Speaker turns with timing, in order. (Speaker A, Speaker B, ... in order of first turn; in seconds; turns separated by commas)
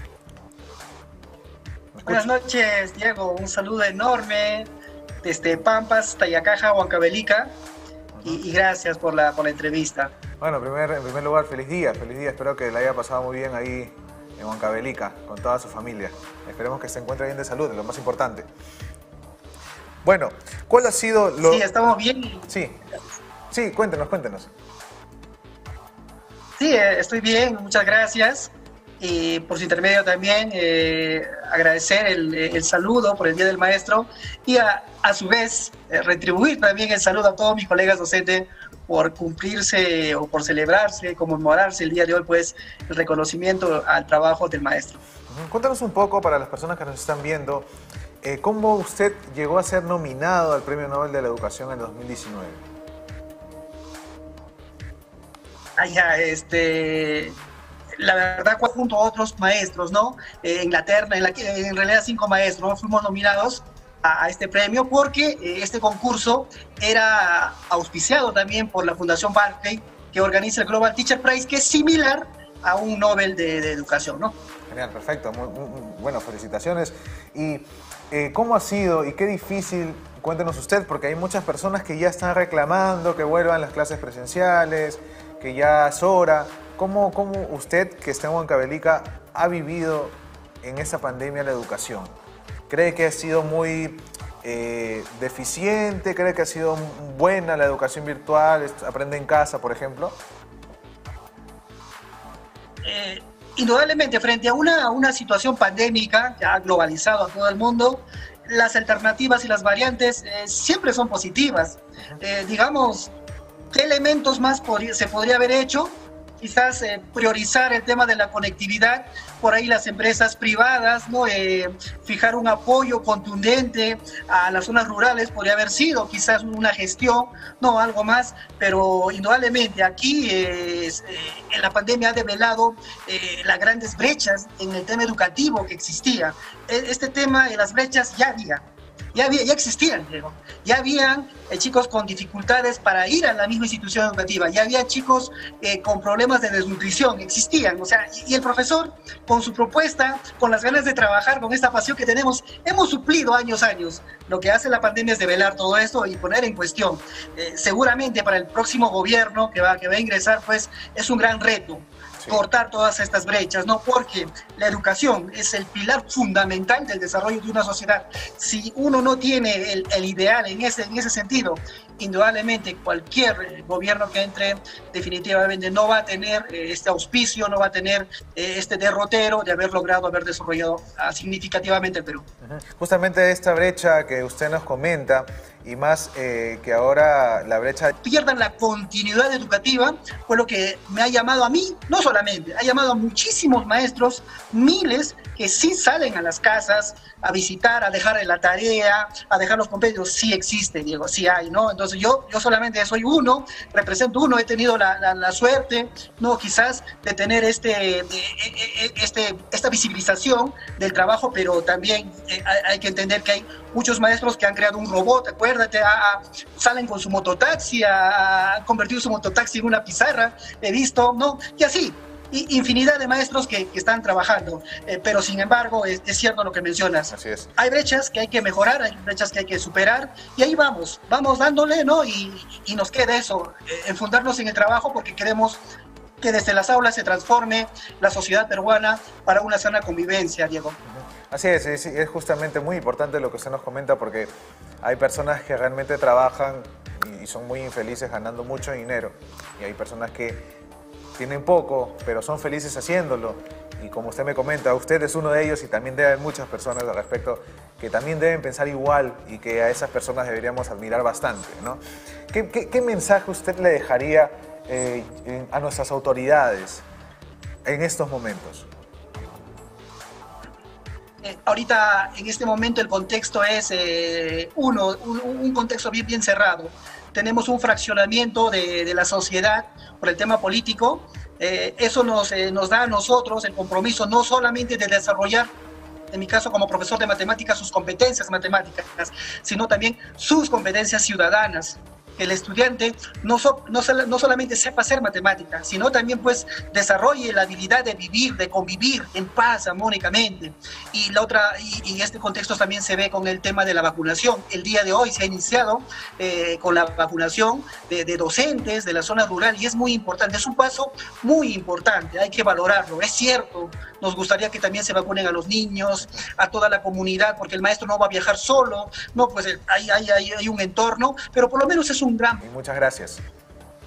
Speaker A: 1.9-2.3, Speaker B: 2.0-4.7, Speaker B: 5.2-7.5, Speaker B: 8.2-10.1, Speaker A: 10.4-18.5, Speaker A: 20.0-21.6, Speaker B: 21.4-22.5, Speaker A: 22.5-22.8, Speaker A: 23.5-24.5, Speaker B: 26.6-45.0, Speaker A: 45.3-47.7, Speaker A: 48.2-52.6, Speaker B: 55.8-57.4, Speaker B: 58.0-74.3, Speaker A: 74.7-92.1, Speaker A: 92.7-100.2, Speaker B: 102.8-113.1, Speaker B: 113.7-182.2, Speaker A: 182.4-187.9, Speaker B: 188.0-235.6, Speaker A: 227.1-227.5, Speaker B: 236.2-240.8, Speaker A: 240.8-250.4, Speaker A: 251.2-266.8, Speaker A: 267.6-268.7, Speaker B: 271.2-285.5, Speaker B: 286.1-322.4, Speaker A: 322.4-323.2